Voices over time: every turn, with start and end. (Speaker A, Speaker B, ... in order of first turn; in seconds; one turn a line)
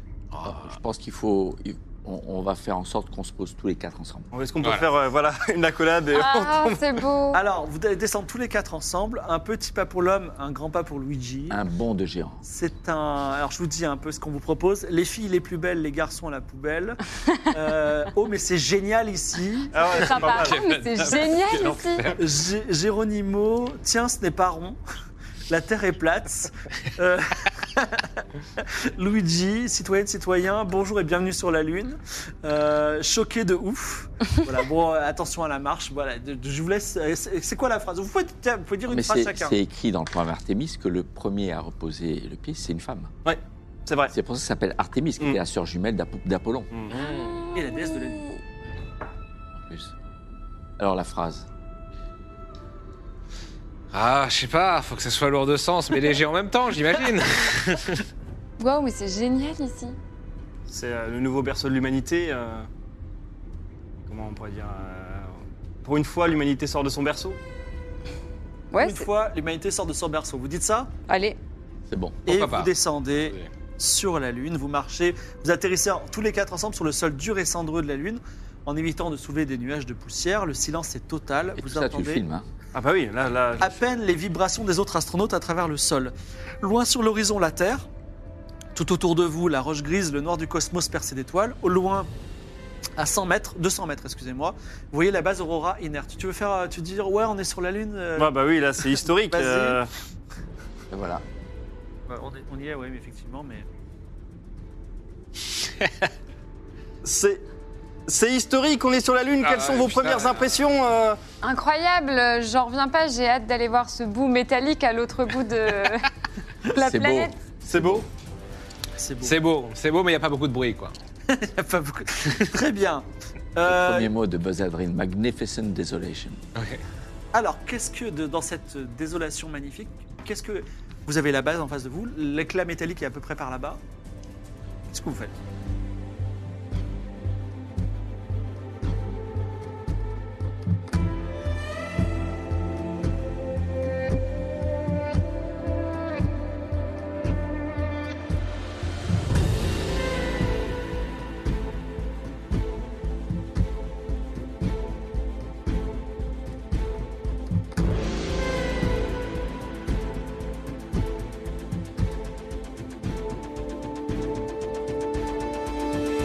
Speaker A: 0.3-0.7
Speaker B: 0.4-4.3
Speaker C: 4.3-6.9
Speaker A: 4.6-4.9
Speaker D: 6.1-7.4
Speaker E: 7.3-11.6
Speaker B: 11.5-12.4
Speaker E: 12.4-19.9
Speaker C: 19.7-20.6
Speaker D: 19.9-22.1
Speaker A: 20.3-22.3
Speaker E: 22.2-24.8
Speaker E: 25.5-39.5
Speaker B: 38.9-43.1
Speaker C: 43.2-44.1
Speaker B: 44.1-46.7
Speaker C: 46.7-47.0
Speaker A: 46.9-47.5
Speaker E: 47.5-48.4
Speaker B: 49.5-49.9
Speaker B: 50.8-51.5
Speaker A: 53.9-58.0
Speaker D: 58.6-60.0
Speaker C: 60.7-62.7
Speaker C: 64.1-67.4
Speaker D: 68.7-69.1
Speaker E: 68.8-70.9
Speaker D: 71.1-71.4
Speaker B: 71.9-72.2
Speaker E: 72.3-82.2
Speaker A: 72.3-73.5
Speaker B: 81.6-82.5
Speaker C: 82.7-84.0
Speaker E: 83.6-87.9
Speaker E: 88.8-92.1
Speaker E: 93.0-98.3
Speaker C: 98.2-99.9
Speaker E: 98.9-99.8
Speaker B: 100.9-101.2
Speaker E: 102.1-103.7
Speaker C: 107.0-107.5
Speaker C: 108.1-111.2
Speaker A: 109.4-110.6
Speaker D: 111.4-116.1
Speaker D: 116.6-117.4
Speaker B: 116.7-118.1
Speaker C: 117.7-118.1
Speaker E: 119.0-119.4
Speaker A: 119.2-121.0
Speaker E: 121.3-124.1
Speaker B: 123.6-126.4
Speaker A: 126.6-126.8
Speaker E: 127.3-133.8
Speaker E: 134.9-135.4